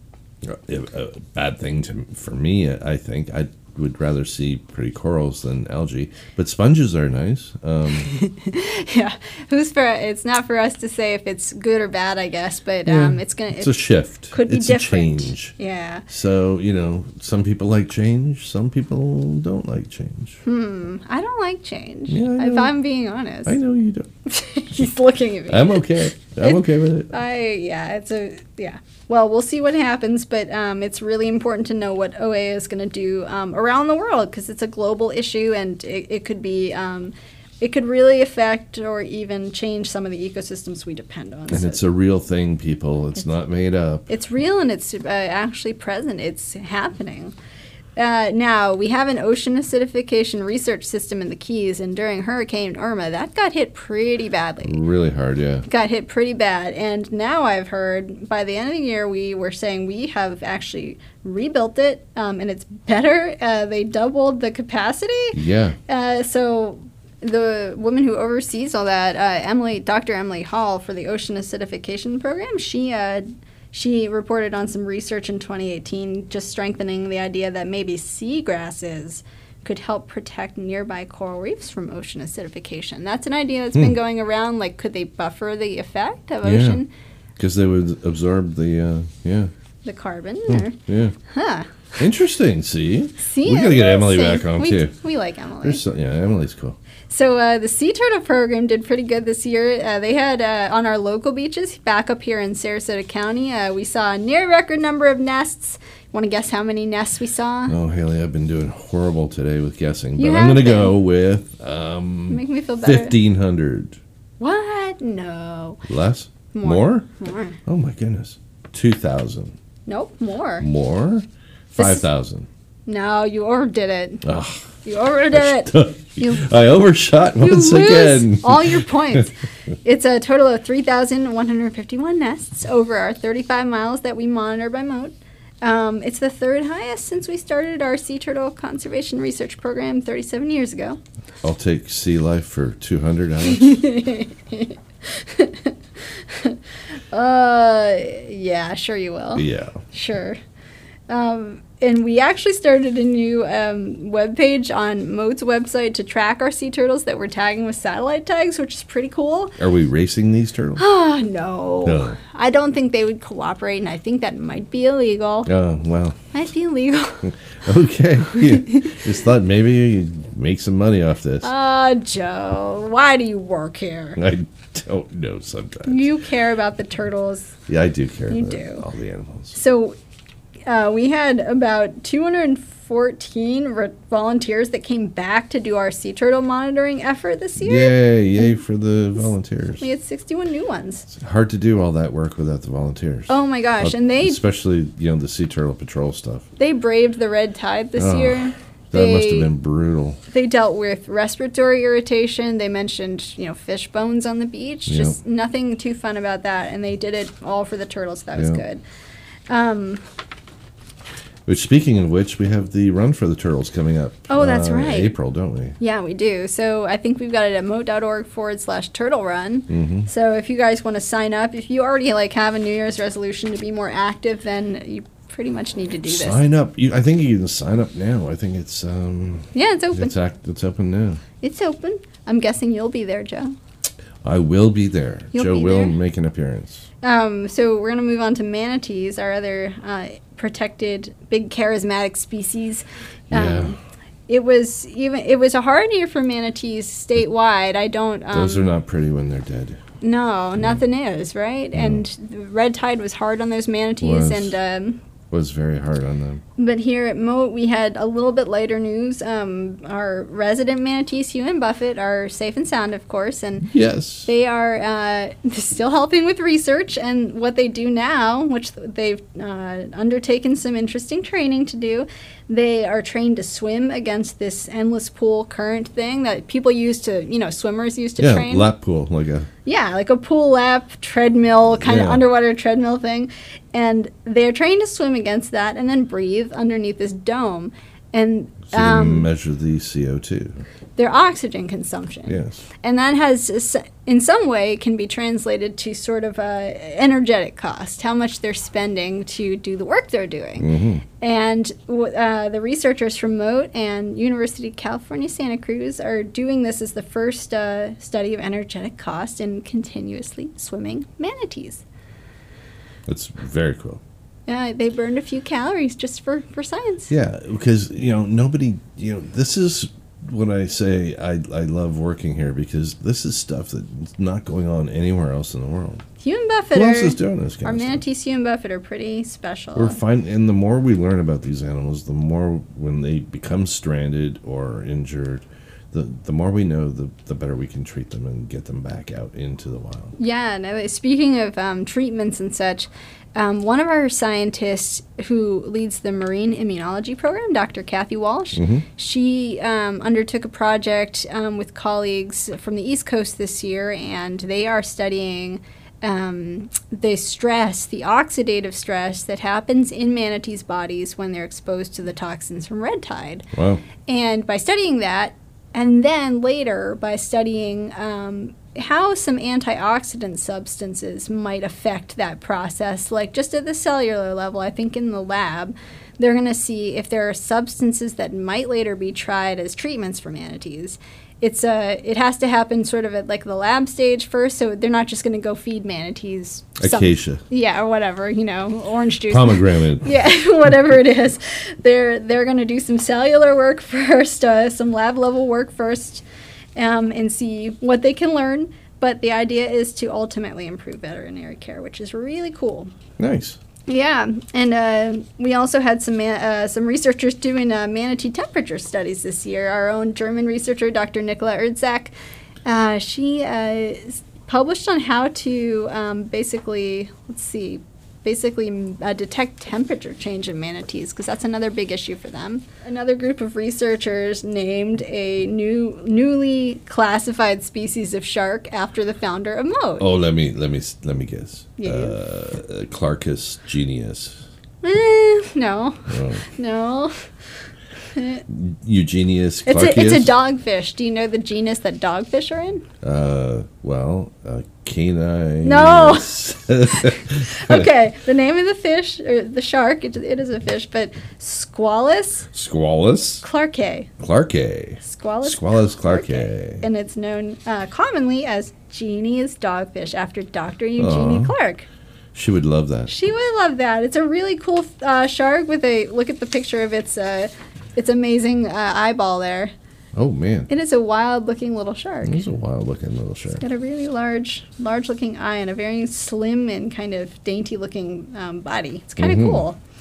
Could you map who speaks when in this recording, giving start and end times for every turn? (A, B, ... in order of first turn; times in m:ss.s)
0:00.4-0:08.1 A
0:08.0-0:16.0 B
0:12.8-0:15.5 A
0:16.1-0:20.4 A
0:20.4-0:23.6 B
0:22.1-0:22.7 A
0:23.4-0:24.1 A
0:24.2-0:41.8 B
0:25.5-0:27.1 A
0:41.5-0:44.0 A
0:44.1-0:47.3 B
0:48.0-0:54.8 B
0:54.6-0:55.6 A
0:55.6-1:26.9 B
1:05.3-1:05.8 A
1:26.4-1:26.8 A
1:27.4-1:29.5 A
1:29.8-1:32.0 B
1:30.5-1:31.2 A
1:32.0-1:34.9 A
1:33.2-1:35.8 B
1:35.6-1:36.8 A
1:37.1-1:47.7 B
1:47.7-1:54.0 A
1:50.2-1:50.9 B
1:52.3-1:53.2 B
1:54.4-1:55.8 B
1:55.8-1:57.0 A
1:56.5-1:57.6 B
1:57.6-1:59.6 A
1:59.9-2:00.7 B
2:00.6-2:02.5 A
2:01.8-2:02.0 B
2:02.9-2:04.2 B
2:04.2-2:04.7 A
2:04.8-2:06.4 B
2:05.3-2:09.2 A
2:07.4-2:21.0 B
2:21.4-2:23.8 A
2:23.4-2:26.6 B
2:27.1-2:30.4 B
2:29.3-2:29.8 A
2:31.1-2:39.6 B
2:39.6-2:40.8 A
2:40.8-2:45.5 B
2:41.8-2:42.2 A
2:45.4-2:46.2 A
2:46.3-2:47.3 B
2:47.2-2:51.5 A
2:48.3-2:49.0 B
2:51.4-2:54.2 B
2:54.2-2:56.1 A
2:55.9-2:57.5 B
2:57.7-2:59.6 A
2:58.3-2:58.8 B
2:59.5-3:00.0 B
3:00.7-3:08.5 B
3:07.6-3:09.9 A
3:09.8-3:11.1 B
3:11.1-3:16.5 A
3:13.3-3:14.4 B
3:16.6-3:19.5 B
3:18.0-3:20.2 A
3:20.3-3:28.8 B
3:24.9-3:25.2 A
3:28.3-3:28.6 A
3:29.5-3:30.0 B
3:31.4-3:35.8 A
3:34.3-3:35.1 B
3:35.8-3:46.4 B
3:39.7-3:40.1 A
3:46.0-3:51.2 A
3:49.5-3:50.1 B
3:51.4-3:53.5 B
3:54.2-3:56.8 A
3:55.3-3:56.0 B
3:57.0-4:03.8 B
4:03.3-4:03.7 A
4:04.3-4:08.7 B
4:08.3-4:09.8 A
4:10.0-4:15.0 B
4:11.7-4:12.0 A
4:14.0-4:14.5 A
4:15.3-4:16.4 A
4:16.6-4:23.7 B
4:23.7-4:24.3 A
4:24.2-4:38.7 B
4:38.2-4:39.5 A
4:39.6-4:49.3 B
4:41.8-4:42.2 A
4:48.7-4:50.6 A
4:51.0-5:00.7 B
4:52.2-4:52.6 A
5:00.6-5:01.0 A
5:01.2-5:11.8 B
5:13.0-5:14.0 A
5:14.5-5:17.1 B
5:17.1-5:26.0 A
5:26.2-5:30.0 B
5:26.7-5:28.0 A
5:29.7-5:40.1 A
5:40.2-6:03.5 B
5:48.5-5:48.8 A
6:03.5-6:03.8 A
6:04.0-6:36.2 B
6:26.8-6:27.4 A
6:29.3-6:30.2 A
6:36.8-6:42.9 B
6:43.2-6:43.6 A
6:43.9-6:52.1 B
6:52.6-7:10.1 B
7:10.0-7:14.4 A
7:11.8-7:12.1 B
7:14.8-7:17.2 B
7:16.1-7:16.4 A
7:18.1-7:18.4 B
7:18.5-7:20.3 A
7:19.6-7:22.8 B
7:23.0-7:27.9 A
7:25.6-7:26.3 B
7:27.3-7:32.5 B
7:32.5-7:33.4 A
7:33.4-7:34.1 B
7:34.2-7:36.8 A
7:35.0-7:41.9 B
7:41.0-7:41.5 A
7:42.3-7:43.1 A
7:43.1-7:49.7 B
7:50.1-7:50.7 A
7:50.7-7:52.4 B
7:52.2-7:53.6 A
7:53.6-7:59.8 B
7:59.2-7:59.6 A